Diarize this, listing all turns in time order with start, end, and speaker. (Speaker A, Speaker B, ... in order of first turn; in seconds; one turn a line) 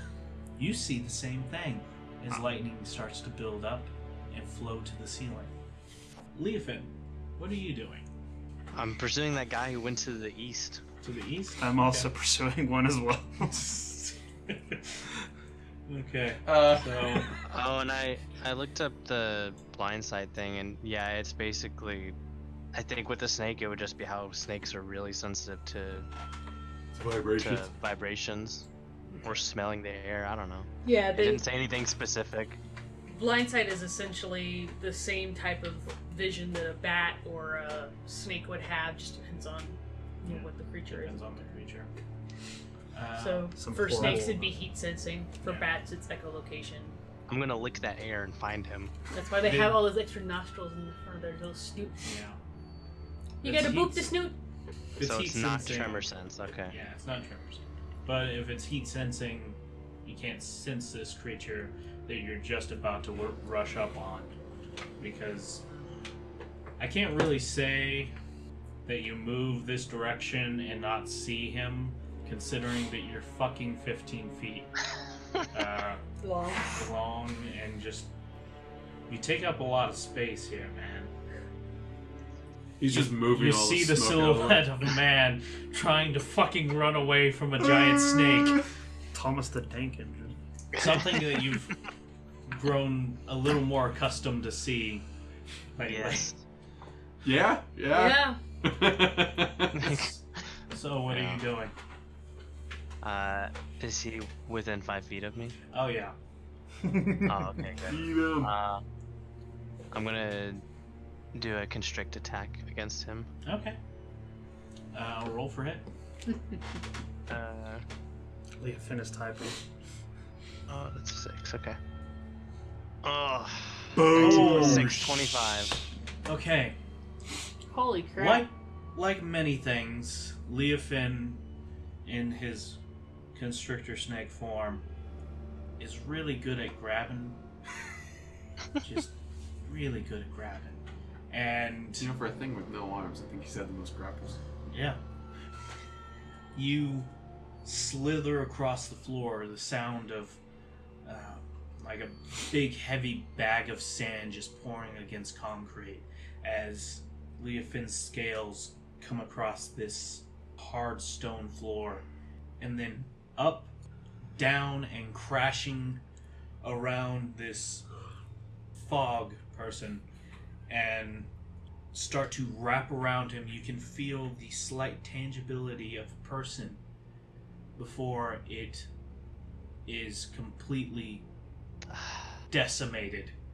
Speaker A: 0.6-5.5
Speaker A: 6.3-8.1
Speaker B: 8.7-10.8
Speaker A: 11.0-12.1
Speaker C: 11.6-13.7
Speaker A: 13.7-14.5
Speaker A: 15.9-17.4
Speaker D: 16.5-17.3
Speaker B: 17.4-22.2
Speaker B: 22.7-26.1
Speaker D: 26.9-27.7
Speaker B: 27.4-28.7
Speaker B: 29.2-32.6
Speaker E: 30.9-31.4
Speaker E: 33.1-41.5
Speaker A: 40.2-41.9
Speaker A: 42.9-44.5
Speaker E: 43.2-47.0
Speaker C: 43.5-44.5
Speaker A: 45.4-45.7
Speaker B: 47.3-48.9
Speaker E: 49.1-52.1
Speaker A: 49.4-49.9
Speaker A: 52.0-52.4
Speaker E: 53.4-54.4
Speaker A: 53.4-54.2
Speaker A: 55.0-56.1
Speaker B: 55.0-56.8
Speaker A: 56.7-64.3
Speaker A: 65.0-65.6
Speaker A: 66.8-68.1
Speaker A: 68.9-74.7
Speaker A: 75.5-76.0
Speaker E: 76.2-76.9
Speaker A: 76.7-78.1
Speaker A: 79.1-81.1
Speaker D: 82.8-84.7
Speaker A: 82.9-88.6
Speaker C: 89.1-90.4
Speaker A: 90.8-91.8
Speaker A: 92.5-95.1
Speaker A: 95.8-96.3
Speaker B: 95.8-96.4
Speaker D: 97.2-99.8
Speaker E: 97.9-98.4
Speaker B: 99.7-100.1
Speaker A: 99.7-101.7
Speaker B: 101.1-101.5
Speaker B: 103.0-105.6
Speaker A: 105.7-106.2
Speaker C: 106.8-107.5
Speaker B: 107.2-108.8
Speaker D: 107.9-108.5
Speaker B: 109.9-110.6
Speaker B: 111.3-113.3
Speaker A: 113.5-113.8
Speaker A: 114.9-115.9
Speaker B: 117.3-117.8
Speaker C: 118.6-119.6
Speaker B: 120.7-121.8
Speaker B: 123.0-125.8
Speaker C: 124.0-124.9
Speaker A: 124.0-125.3
Speaker A: 126.3-126.8
Speaker E: 127.7-128.5
Speaker A: 128.2-131.4
Speaker A: 132.1-132.8
Speaker A: 133.3-134.8
Speaker A: 135.8-137.4
Speaker A: 138.8-139.1
Speaker A: 139.6-142.1
Speaker D: 142.0-144.4
Speaker A: 144.7-145.0
Speaker A: 146.6-147.1
Speaker A: 147.6-150.4
Speaker A: 151.1-162.1
Speaker A: 162.6-163.7
Speaker A: 164.4-166.0
Speaker A: 166.6-167.9
Speaker A: 168.8-170.1
Speaker A: 170.7-171.3
Speaker A: 171.9-176.8
Speaker A: 177.8-178.9
Speaker A: 179.9-181.2
Speaker B: 181.9-182.4
Speaker A: 182.5-183.3